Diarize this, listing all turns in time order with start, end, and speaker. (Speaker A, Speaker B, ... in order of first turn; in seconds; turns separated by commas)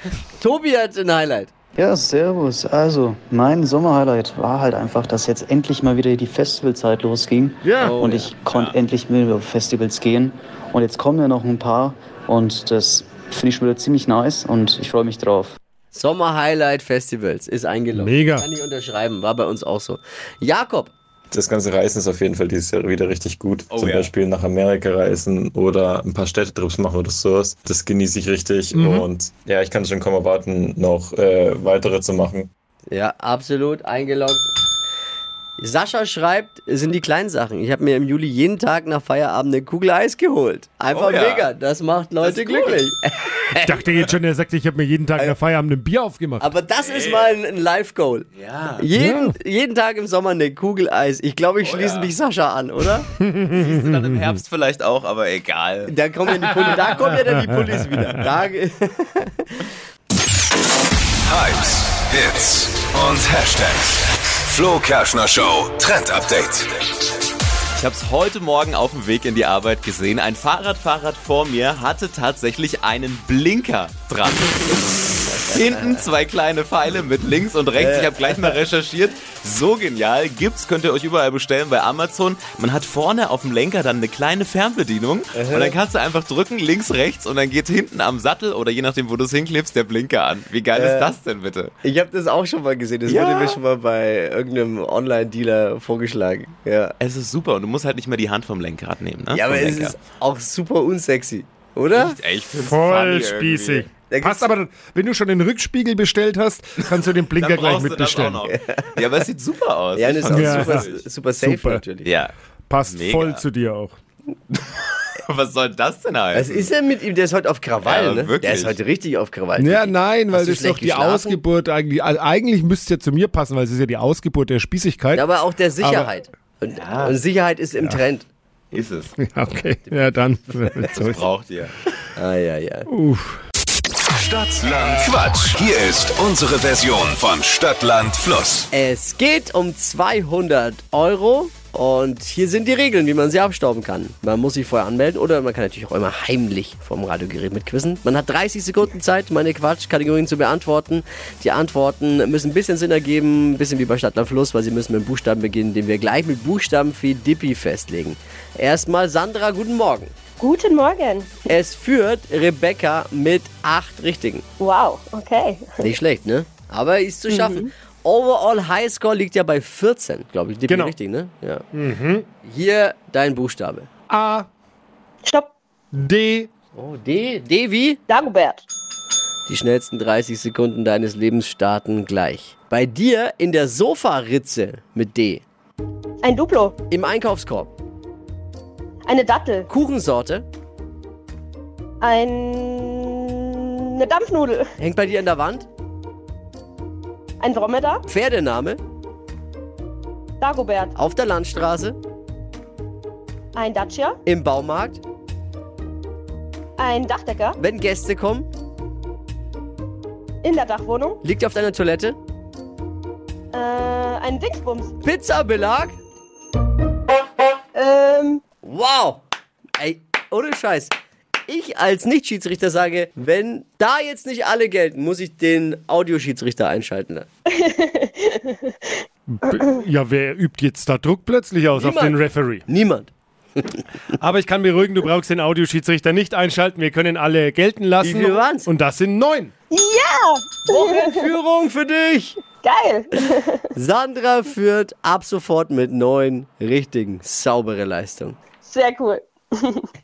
Speaker A: 0.4-1.5, Speaker B: 1.8-15.6, Speaker A: 7.6-8.3, Speaker C: 8.5-8.8, Speaker A: 15.9-20.9, Speaker D: 17.9-18.5, Speaker E: 21.3-32.5, Speaker C: 23.7-24.1, Speaker D: 28.7-29.1, Speaker A: 32.9-34.5, Speaker A: 35.6-43.7, Speaker C: 40.9-41.5, Speaker C: 42.2-42.9, Speaker D: 43.6-46.5, Speaker A: 46.4-48.3, Speaker C: 46.8-47.4, Speaker C: 48.3-48.9, Speaker A: 48.8-53.1, Speaker D: 49.0-49.3, Speaker C: 51.6-52.1, Speaker D: 53.2-54.2, Speaker C: 53.5-56.0, Speaker A: 55.9-59.6, Speaker C: 56.7-57.1, Speaker D: 57.1-57.8, Speaker F: 61.3-66.7, Speaker C: 67.8-91.7, Speaker A: 75.2-76.1, Speaker A: 77.8-78.6, Speaker A: 85.4-85.8, Speaker A: 90.7-91.2, Speaker A: 91.8-96.9, Speaker C: 93.1-93.6, Speaker C: 97.0-100.0, Speaker A: 99.3-102.2, Speaker C: 101.9-103.9, Speaker D: 102.5-108.5, Speaker A: 104.1-104.5, Speaker C: 106.9-111.0, Speaker A: 108.5-108.9, Speaker A: 110.0-112.1, Speaker D: 110.3-110.9, Speaker D: 111.4-111.8, Speaker C: 112.0-112.3, Speaker D: 112.7-114.0, Speaker C: 112.9-113.5, Speaker C: 114.5-116.7, Speaker A: 116.3-121.4, Speaker C: 117.8-118.8, Speaker D: 119.6-125.2, Speaker A: 125.2-128.3, Speaker D: 125.8-126.1, Speaker C: 126.8-127.2, Speaker C: 128.7-129.1, Speaker D: 129.2-131.2, Speaker C: 131.0-131.7, Speaker A: 132.2-132.9, Speaker D: 132.9-133.4, Speaker F: 134.1-138.7, Speaker A: 138.7-160.1, Speaker G: 160.4-161.5, Speaker A: 161.5-164.4, Speaker G: 164.6-165.9, Speaker A: 165.8-171.6, Speaker G: 167.3-167.7, Speaker D: 170.7-170.9, Speaker D: 171.7-172.3, Speaker A: 172.4-173.9, Speaker D: 174.1-174.5, Speaker G: 175.2-175.5, Speaker D: 175.9-176.5, Speaker A: 176.8-178.0, Speaker G: 178.1-178.7, Speaker A: 179.5-185.4, Speaker G: 186.2-186.8, Speaker A: 186.9-187.7, Speaker G: 189.1-189.7, Speaker A: 189.7-190.5, Speaker G: 192.0-194.7, Speaker A: 194.8-195.7, Speaker G: 197.4-198.0, Speaker A: 198.1-198.8, Speaker G: 200.4-200.9, Speaker A: 201.0-202.0, Speaker G: 203.6-204.2, Speaker A: 204.2-205.0, Speaker G: 206.8-207.6, Speaker A: 207.6-208.5, Speaker G: 210.4-211.2, Speaker A: 211.2-212.2, Speaker G: 213.5-214.9, Speaker A: 215.0-216.0, Speaker G: 217.8-218.5, Speaker A: 218.6-219.2, Speaker A: 219.8-220.9, Speaker A: 221.5-227.3, Speaker G: 227.5-228.7, Speaker D: 229.3-232.6, Speaker A: 231.8-233.8, Speaker D: 234.2-239.5, Speaker A: 238.0-238.7, Speaker G: 239.7-241.2, Speaker A: 240.7-242.4, Speaker G: 242.6-243.6, Speaker A: 243.8-248.4, Speaker G: 248.6-249.9